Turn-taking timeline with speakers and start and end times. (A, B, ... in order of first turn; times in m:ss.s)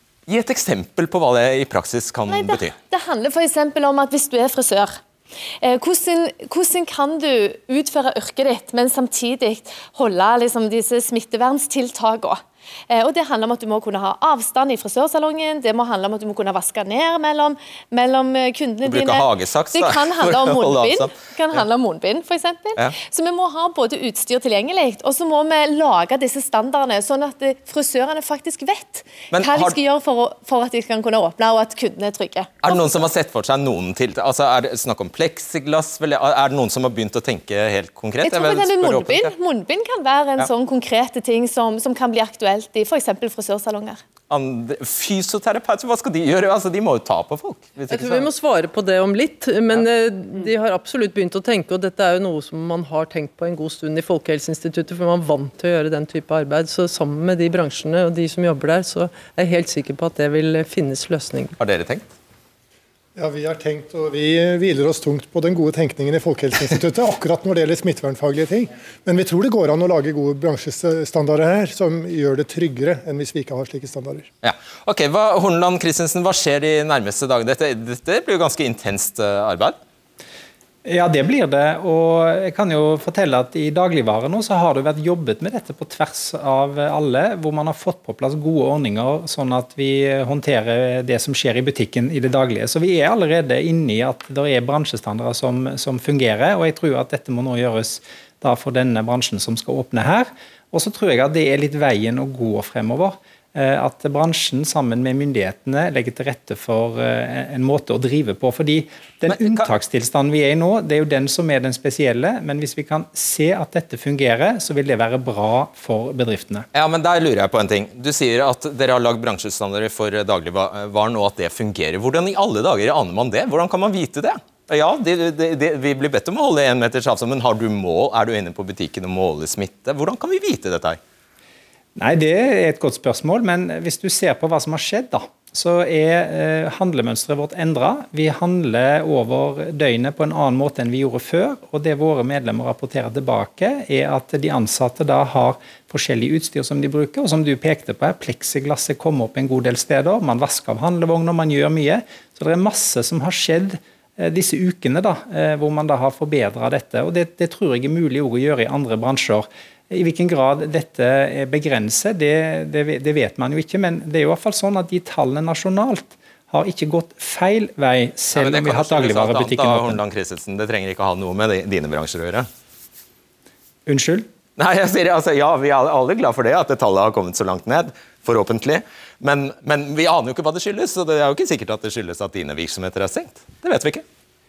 0:00.3-0:02.8 A
0:02.3-0:05.0 B
0:05.6-0:32.8 B
0:18.8-0:21.6 A
0:29.3-0:29.8 A
0:32.6-0:39.3 A
0:38.2-0:44.0 B
0:44.3-0:48.3 A
0:47.9-1:01.6 C
1:01.6-1:02.0 A
1:03.2-1:14.3 D
1:14.4-1:19.8 A
1:20.8-1:56.7 E
1:49.3-1:49.7 A
1:56.7-2:11.0 A
2:12.0-2:50.0 E
2:48.4-2:52.5 A
2:53.9-2:54.3 E
2:54.6-3:04.0 A